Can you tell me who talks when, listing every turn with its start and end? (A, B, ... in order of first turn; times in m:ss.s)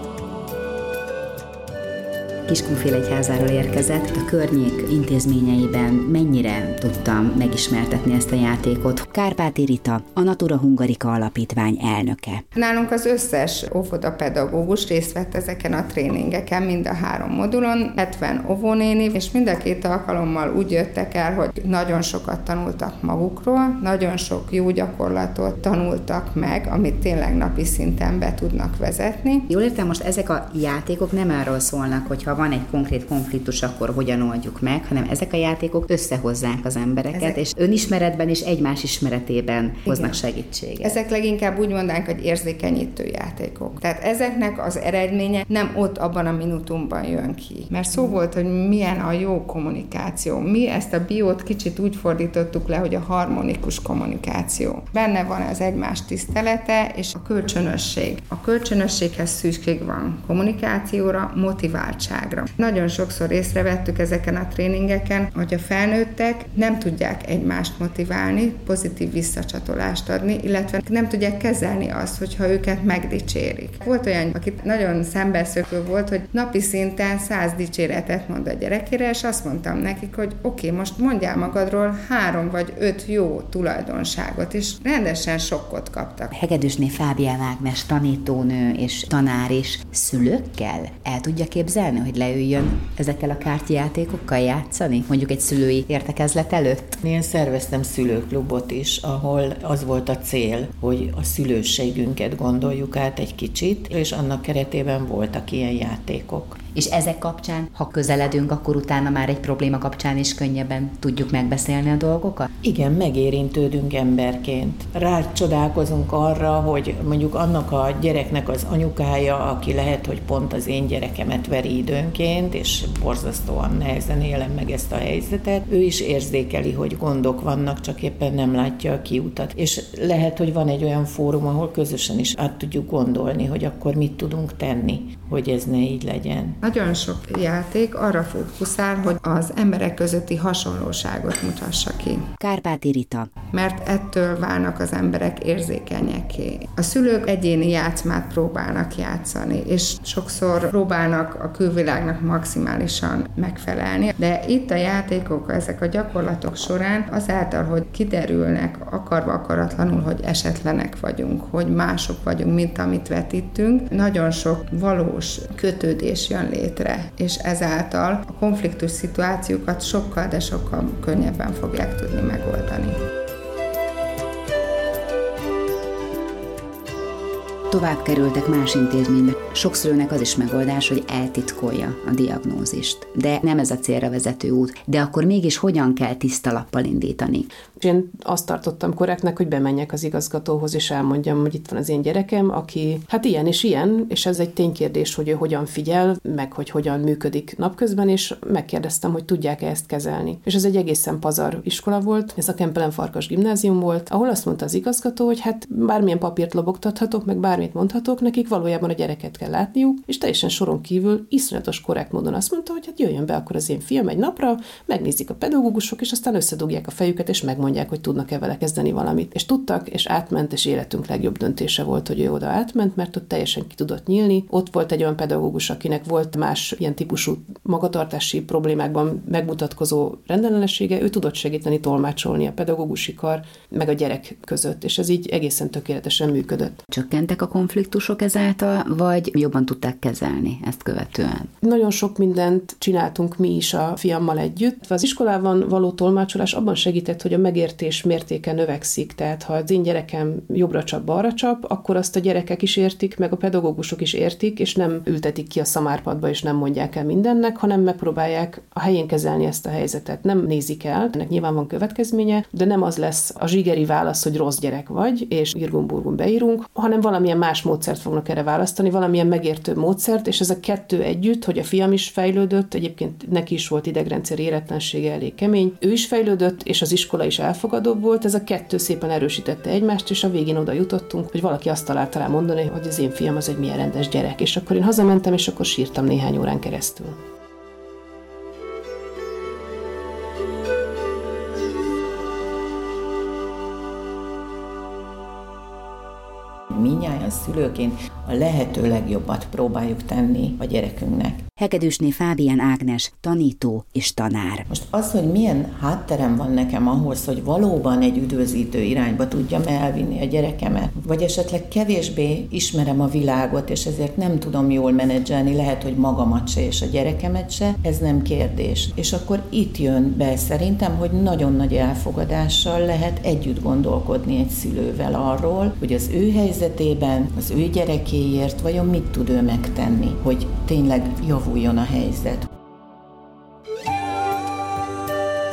0:02.5-0:12.4 A
0:12.6-0:29.5 B
0:29.5-0:41.0 A
0:37.1-0:37.4 B
0:39.9-0:40.2 B
0:40.8-1:26.3 B
1:26.3-1:37.0 A
1:37.0-1:46.6 C
1:46.7-1:52.4 A
1:52.6-2:16.6 C
2:16.6-2:22.2 B
2:22.4-2:23.3 A
2:23.5-2:53.0 B
2:57.7-3:07.5 A
3:07.8-3:56.8 D
3:56.9-4:01.5 A
4:01.6-4:47.2 D
4:56.7-5:01.4 C
5:01.6-5:04.6 A
5:04.7-5:32.5 C